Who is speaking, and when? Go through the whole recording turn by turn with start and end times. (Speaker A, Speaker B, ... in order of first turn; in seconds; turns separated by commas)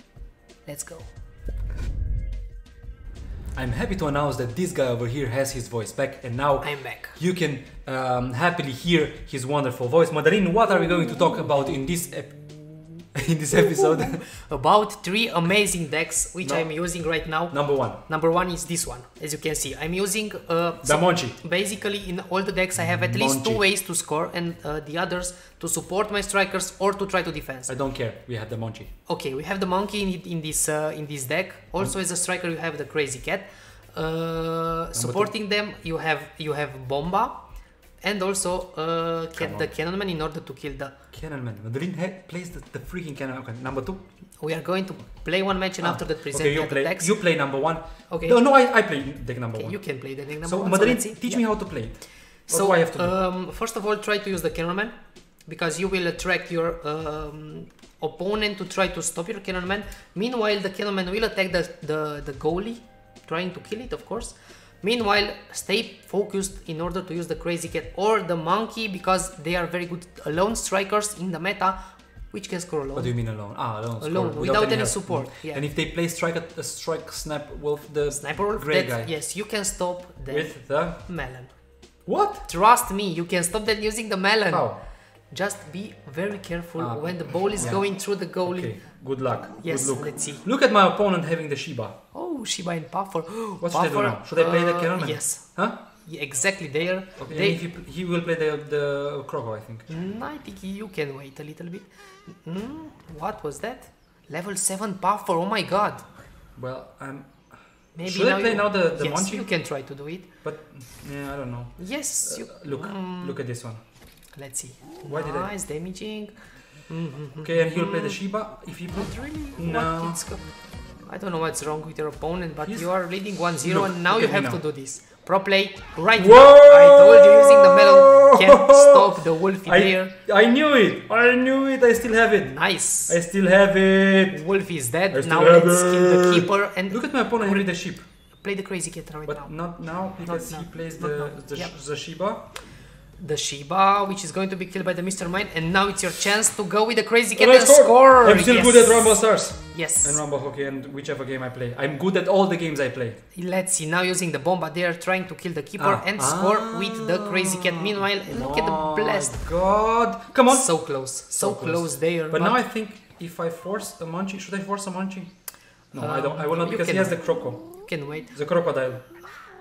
Speaker A: 0.6-1.1, Speaker B: 3.5-14.3, Speaker A: 6.6-7.2, Speaker A: 13.8-27.7, Speaker B: 16.4-18.0, Speaker B: 20.8-21.4, Speaker B: 22.8-23.6, Speaker B: 27.7-28.9, Speaker A: 29.1-37.5, Speaker B: 34.9-35.3, Speaker A: 38.0-41.0, Speaker B: 39.4-39.7, Speaker B: 41.1-44.0, Speaker A: 44.4-47.5, Speaker B: 45.8-53.1, Speaker A: 48.1-48.9, Speaker A: 49.5-75.7, Speaker B: 72.9-79.2, Speaker A: 78.1-81.6, Speaker B: 80.3-81.2, Speaker B: 82.0-82.5, Speaker A: 82.5-88.9, Speaker B: 84.5-84.8, Speaker B: 86.8-92.0, Speaker A: 89.6-90.5, Speaker A: 92.1-97.6, Speaker B: 93.6-95.8, Speaker B: 97.2-99.9, Speaker A: 99.9-106.1, Speaker B: 106.5-109.8, Speaker A: 107.9-110.3, Speaker B: 110.4-113.8, Speaker A: 111.8-113.4, Speaker A: 114.3-118.2, Speaker B: 115.0-115.5, Speaker B: 117.4-120.2, Speaker A: 118.9-130.1, Speaker B: 122.6-124.6, Speaker B: 126.2-134.5, Speaker A: 132.4-133.2, Speaker A: 134.3-137.8, Speaker B: 135.1-138.0, Speaker A: 138.4-141.8, Speaker B: 139.2-142.5, Speaker A: 143.2-149.1, Speaker B: 147.3-153.2, Speaker A: 149.7-150.2, Speaker A: 153.3-159.4, Speaker B: 155.8-169.3, Speaker A: 160.5-162.6, Speaker A: 165.9-168.4